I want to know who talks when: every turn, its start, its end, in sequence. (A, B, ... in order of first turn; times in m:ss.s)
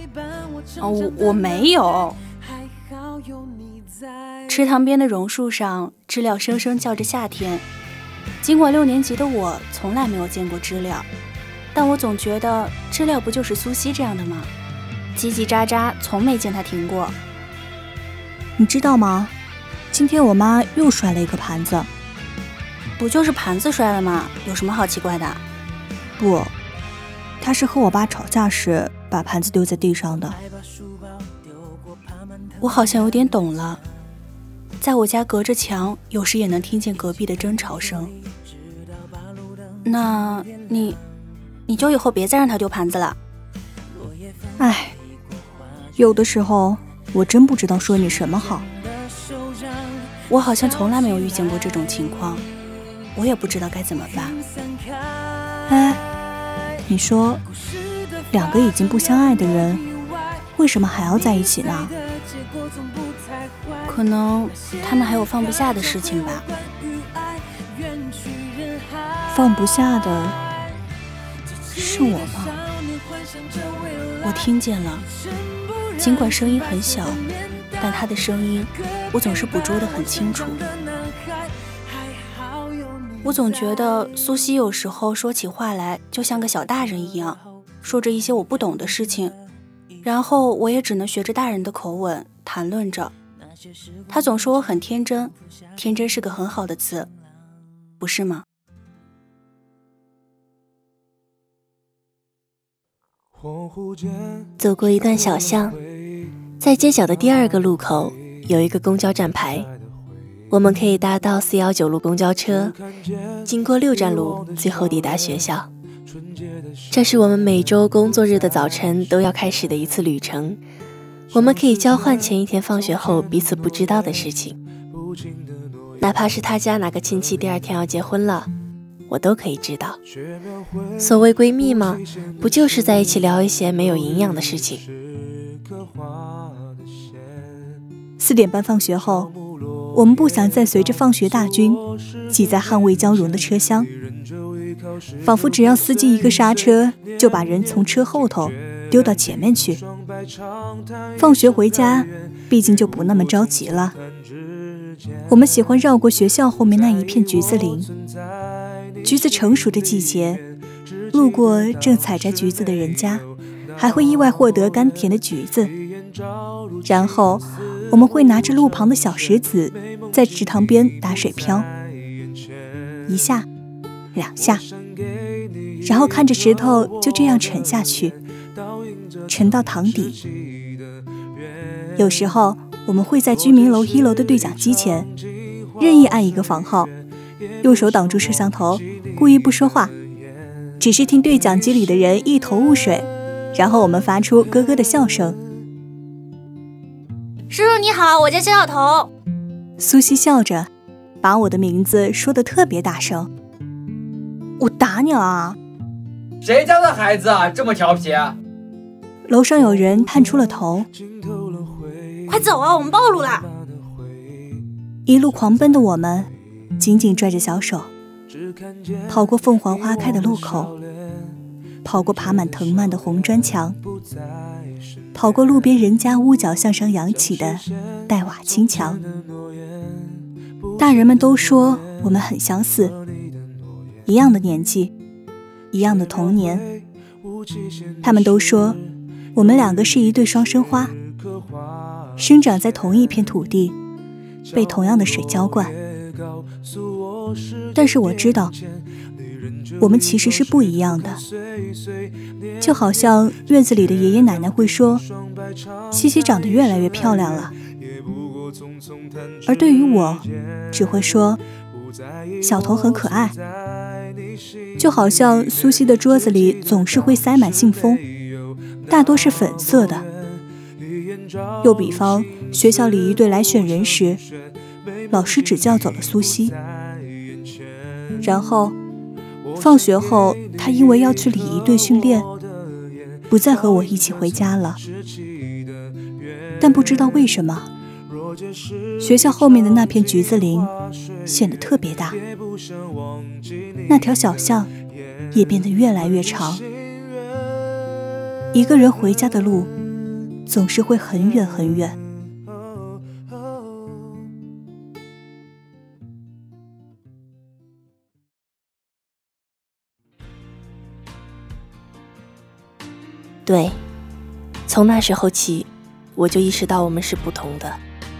0:00.8-0:02.2 A
0:04.5-0:07.6 A
0:08.4-0:11.1 A
0:11.7-0:14.5 A
0:15.1-0:17.2 A
0:18.6-0:19.3 B
0:19.9-0:21.9 B
0:23.0-0:25.4 A
0:26.2-0:26.5 B
0:27.4-0:30.4 B
0:32.6-0:33.8 A
0:34.8-0:38.1 A
0:39.8-0:41.0 A
0:41.7-0:43.2 A
0:44.6-0:45.0 B
0:46.0-0:48.6 B
0:50.3-0:52.4 A
0:53.1-0:54.4 A
0:55.7-0:56.0 B
0:56.8-0:57.4 B
0:58.3-0:59.8 B
1:00.6-1:01.9 B
1:03.8-1:06.5 A
1:09.3-1:10.4 B
1:11.7-1:12.6 B
1:14.2-1:15.0 A
1:16.0-1:17.2 A
1:17.8-1:20.7 A
1:23.2-1:29.4 A
1:30.0-1:33.1 A
1:34.1-1:37.1 A
1:38.0-1:38.4 A
1:44.6-1:45.8 C
1:46.6-1:49.7 C
1:50.5-1:52.8 C
1:53.4-1:55.7 C
1:56.9-2:00.6 C
2:01.3-2:04.6 C
2:06.0-2:08.5 C
2:09.1-2:10.0 C
2:11.0-2:14.8 C
2:18.2-2:19.3 B
2:19.9-2:23.9 B
2:25.2-2:29.8 B
2:31.2-2:34.0 B
2:35.3-2:37.9 B
2:39.0-2:40.4 B
2:41.1-2:43.2 B
2:43.8-2:45.7 B
2:46.8-2:51.7 B
2:53.1-2:53.4 B
2:54.1-2:54.6 B
2:55.8-2:58.2 B
2:59.3-3:00.2 B
3:02.0-3:05.1 B
3:05.8-3:06.9 B
3:07.6-3:09.9 B
3:10.8-3:15.4 B
3:17.5-3:19.1 D
3:19.8-3:20.7 B
3:21.2-3:23.3 B
3:24.6-3:25.6 B
3:26.4-3:28.4 E
3:29.3-3:30.9 B
3:32.3-3:33.4 D
3:35.0-3:37.9 B
3:39.1-3:40.7 B
3:41.8-3:43.8 B
3:45.1-3:49.0 B
3:50.8-3:53.0 B
3:54.0-3:54.9 B
3:55.7-3:56.6 B
3:58.0-3:58.8 B
3:59.3-4:00.9 B
4:02.2-4:03.8 B
4:04.5-4:05.7 B
4:07.7-4:08.5 B
4:09.8-4:11.2 B
4:12.6-4:15.0 B
4:15.9-4:17.5 B
4:19.4-4:21.4 B
4:22.4-4:23.4 B
4:24.8-4:28.0 B
4:28.9-4:30.0 B
4:31.6-4:34.2 B
4:35.1-4:36.5 B
4:38.2-4:38.7 B
4:39.5-4:42.3 B
4:43.3-4:44.8 B
4:46.6-4:47.7 B
4:49.0-4:50.7 B
4:51.2-4:52.2 B
4:53.9-4:54.7 B
4:55.3-4:56.6 B
4:58.5-4:59.7 B
5:00.5-5:02.0 B
5:13.4-5:13.8 C
5:14.7-5:17.8 C